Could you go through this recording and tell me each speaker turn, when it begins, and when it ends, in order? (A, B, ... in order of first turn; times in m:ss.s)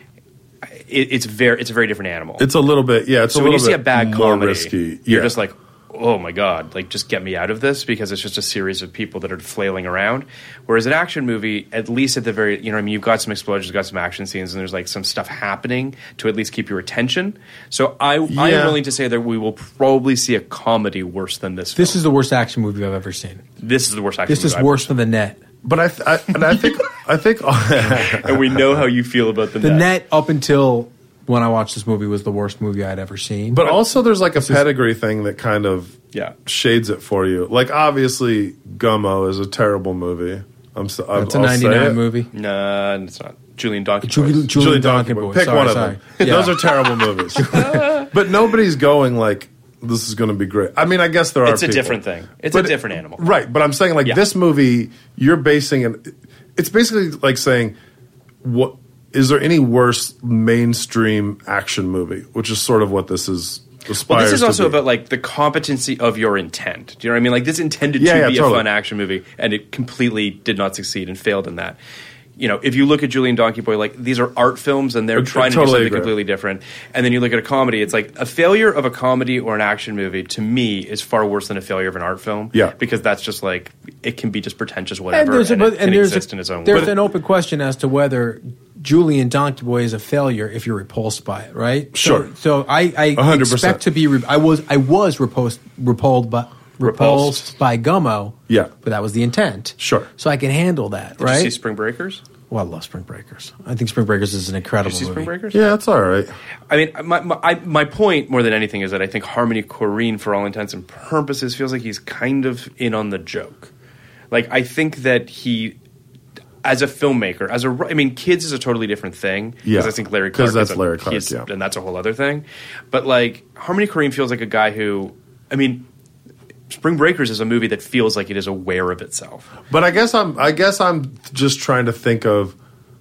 0:00.7-0:02.4 A
0:02.4-0:05.3 B
0:03.3-0:22.0 A
0:18.3-0:18.8 B
0:21.8-0:23.4 C
0:23.6-0:24.9 A
0:24.3-0:25.4 C
0:25.6-0:28.8 B
0:28.1-0:29.9 A
0:29.6-0:33.6 C
0:33.5-0:42.0 B
0:41.1-0:42.3 C
0:42.3-0:44.5 A
0:44.0-0:46.7 C
0:44.5-0:52.0 B
0:46.2-0:46.5 A
0:47.4-0:47.6 C
0:47.5-0:48.1 A
0:51.4-0:53.3 A
0:52.5-0:57.8 B
0:58.4-1:04.8 B
1:04.0-1:11.8 A
1:08.0-1:08.7 B
1:12.4-1:26.9 A
1:15.2-1:16.1 B
1:25.1-1:41.5 C
1:26.7-1:27.0 B
1:31.9-1:32.3 B
1:33.1-1:33.8 B
1:36.8-1:37.5 A
1:39.8-1:40.1 B
1:41.2-1:42.2 A
1:42.5-1:45.3 C
1:44.8-1:45.7 A
1:45.5-1:46.3 B
1:46.7-1:53.7 A
1:54.3-1:55.8 A
1:56.6-2:05.8 A
1:59.6-2:01.4 B
2:06.7-2:09.5 A
2:09.7-2:12.5 B